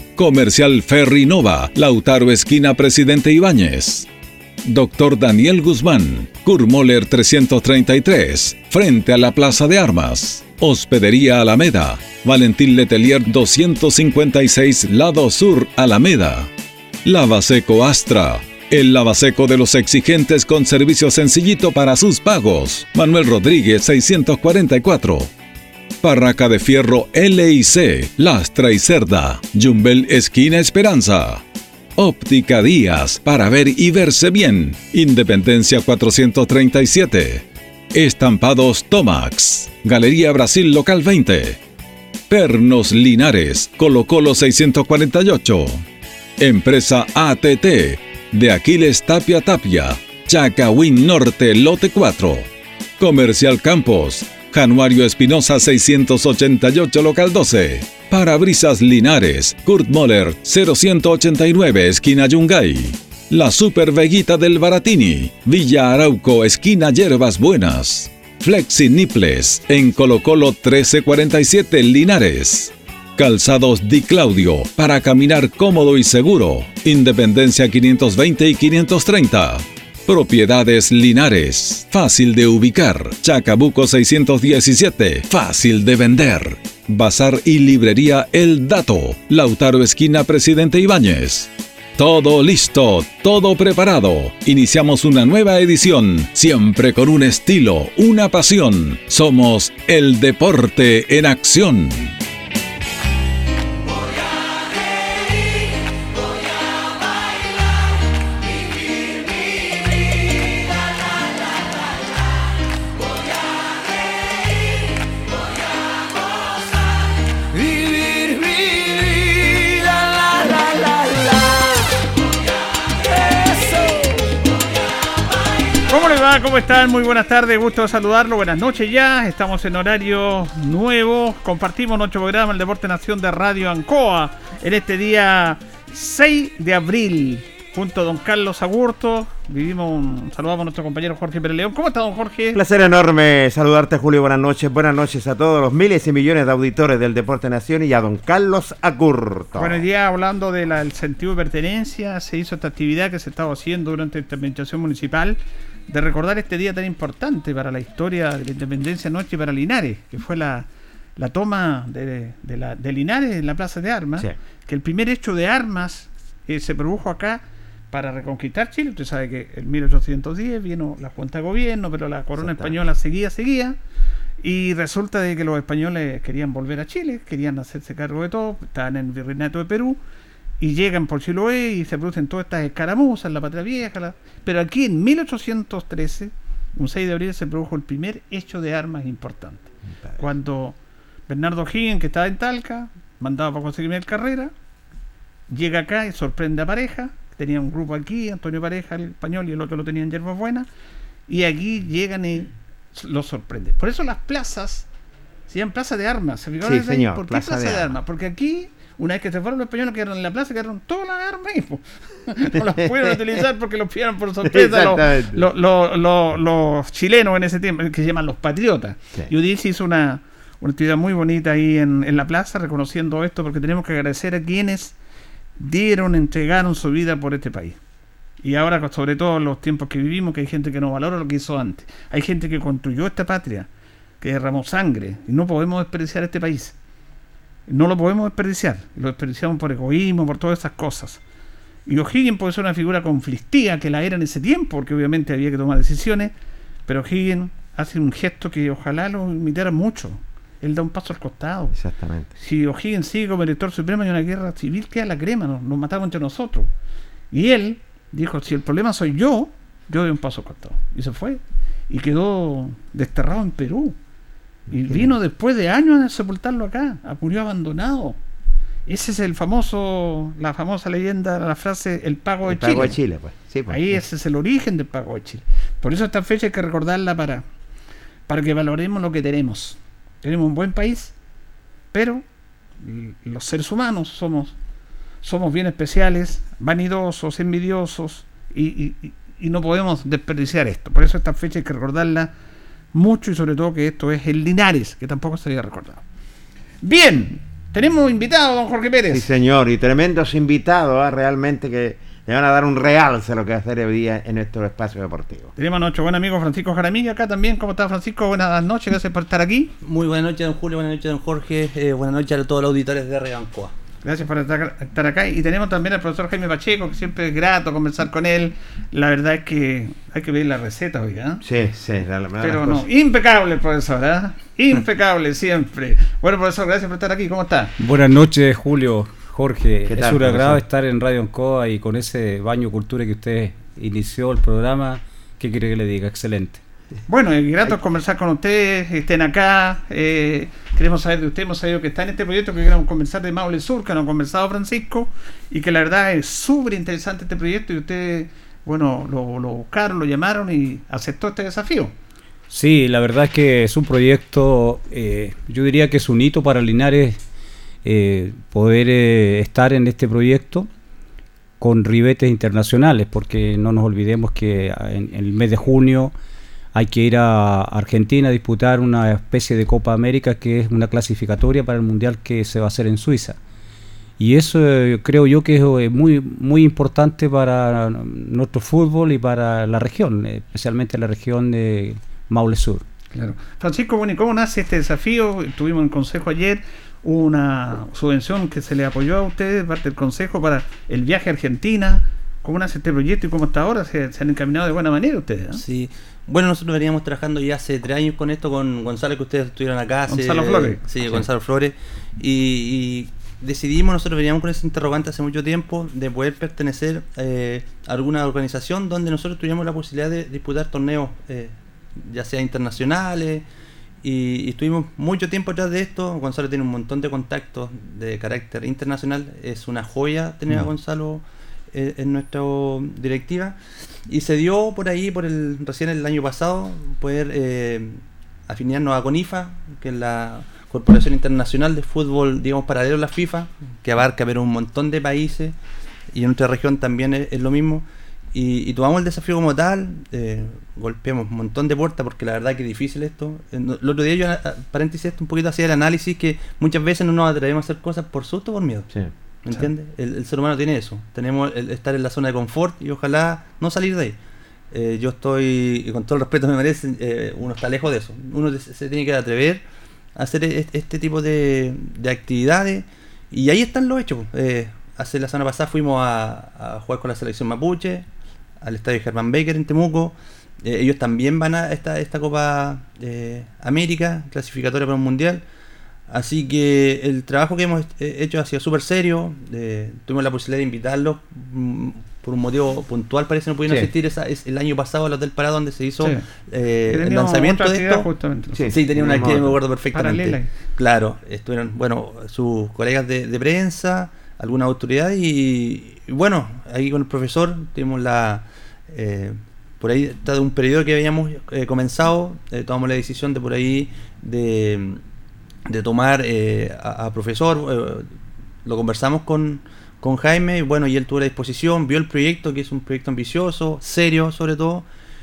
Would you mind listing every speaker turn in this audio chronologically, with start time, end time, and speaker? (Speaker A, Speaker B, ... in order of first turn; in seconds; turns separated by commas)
Speaker A: 0.2-4.1, Speaker A: 4.6-16.5, Speaker A: 17.1-25.3, Speaker A: 26.0-31.4, Speaker A: 31.9-41.6, Speaker A: 42.3-45.8, Speaker A: 46.4-52.5, Speaker A: 53.0-102.1, Speaker B: 125.9-142.6, Speaker C: 142.5-149.8, Speaker B: 149.6-173.8, Speaker C: 172.4-172.8, Speaker B: 174.4-180.0, Speaker B: 180.6-190.8, Speaker B: 191.3-194.5, Speaker B: 195.5-200.7, Speaker B: 201.3-204.9, Speaker B: 205.5-224.9, Speaker C: 206.6-207.9, Speaker C: 212.7-213.1, Speaker C: 214.4-215.4, Speaker B: 225.6-227.8, Speaker B: 228.4-233.7, Speaker B: 234.2-236.8, Speaker B: 237.7-241.2, Speaker B: 241.9-246.3, Speaker B: 246.9-251.8, Speaker C: 251.7-252.3, Speaker B: 252.4-256.7, Speaker B: 257.3-264.0, Speaker C: 264.7-265.1, Speaker B: 264.7-268.2, Speaker B: 268.9-273.0, Speaker C: 272.4-274.0, Speaker B: 273.7-277.4, Speaker B: 278.3-281.1, Speaker B: 281.9-282.2, Speaker B: 282.8-284.6, Speaker B: 285.2-292.3, Speaker B: 292.9-296.0, Speaker B: 296.8-299.2, Speaker C: 299.1-305.5, Speaker B: 305.6-309.7, Speaker D: 309.8-313.7, Speaker B: 314.0-321.4, Speaker C: 321.4-322.9, Speaker B: 322.4-327.7, Speaker E: 327.8-336.6, Speaker C: 329.9-330.6, Speaker B: 337.1-351.9, Speaker E: 352.5-357.2, Speaker E: 357.8-360.7, Speaker E: 361.6-366.1, Speaker E: 366.7-373.4, Speaker E: 374.2-382.8, Speaker B: 383.1-395.6, Speaker D: 395.6-413.4, Speaker B: 400.1-400.8, Speaker D: 414.0-435.6, Speaker D: 436.1-448.9, Speaker D: 449.4-454.2, Speaker D: 454.7-459.6, Speaker D: 460.2-468.1, Speaker D: 468.6-475.4, Speaker D: 476.1-488.1, Speaker B: 486.9-488.7, Speaker C: 488.5-489.6, Speaker D: 488.7-505.0, Speaker B: 489.9-490.5, Speaker D: 505.7-508.1, Speaker D: 508.6-514.9